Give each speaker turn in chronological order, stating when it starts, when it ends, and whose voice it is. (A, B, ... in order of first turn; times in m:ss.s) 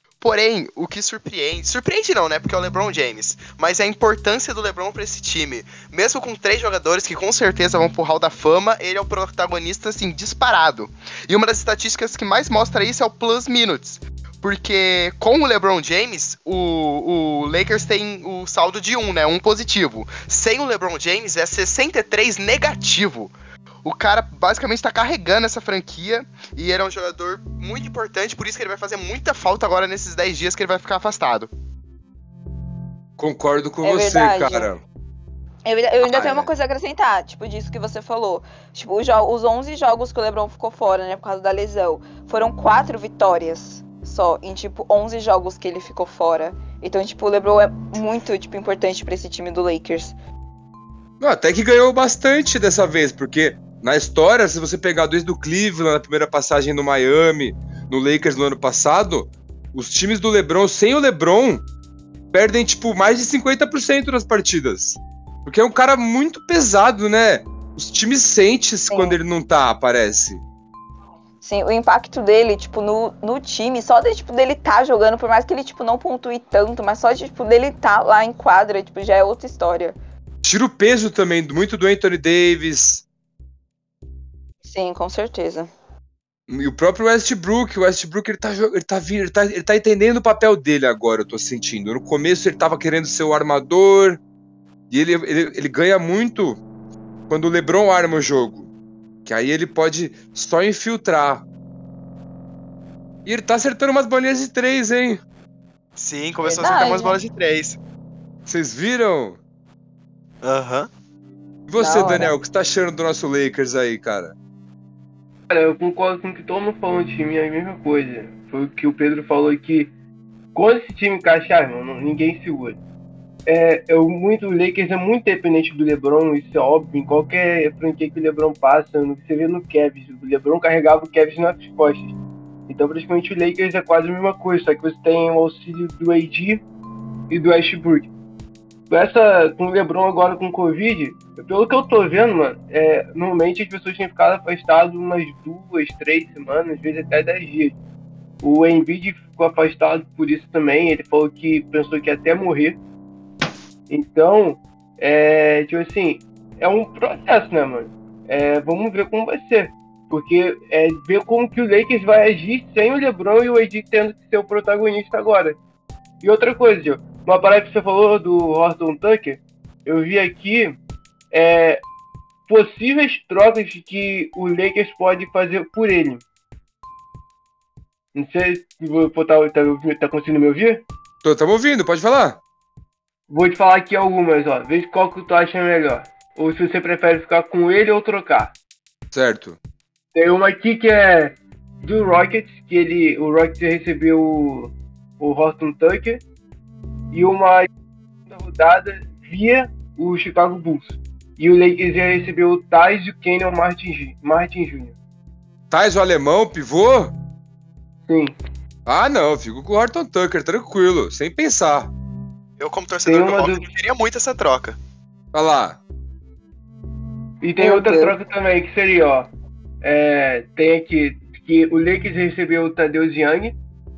0:00.2-0:31.5 A
0:33.2-0:34.8 B
0:33.8-0:34.7 C
0:35.6-0:50.1 C
0:36.0-0:36.5 B
0:51.2-1:01.6 B
1:02.3-1:10.4 B
1:08.9-1:09.2 C
1:11.4-1:20.0 C
1:20.4-1:23.0 B
1:24.6-1:25.7 C
1:26.5-1:34.2 B
1:34.9-1:36.6 B
1:37.3-1:38.7 B
1:39.2-1:41.4 B
1:43.2-1:45.2 B
1:46.0-1:47.8 A
1:46.4-1:47.2 C
1:48.4-1:49.4 B
1:50.4-1:50.9 A
1:51.7-1:54.3 B
1:51.8-1:52.3 C
1:55.5-1:59.9 D
2:00.5-2:02.8 D
2:03.4-2:12.1 D
2:12.7-2:16.6 D
2:17.3-2:18.1 D
2:18.9-2:27.8 D
2:28.4-2:32.8 D
2:33.9-2:45.6 D
2:46.2-2:50.8 D
2:51.3-2:51.8 D
2:52.5-2:56.2 D
2:58.1-3:00.8 D
3:01.2-3:02.4 B
3:03.3-3:08.5 D
3:09.1-3:09.6 B
3:10.1-3:16.2 D
3:17.1-3:17.7 D
3:18.2-3:24.9 D
3:25.7-3:27.1 B
3:28.1-3:28.3 D
3:28.8-3:31.9 B
3:32.6-3:34.8 A
3:33.0-3:33.6 D
3:35.3-3:35.8 B
3:37.4-3:39.3 D
3:37.6-3:38.1 C
3:39.8-3:43.6 D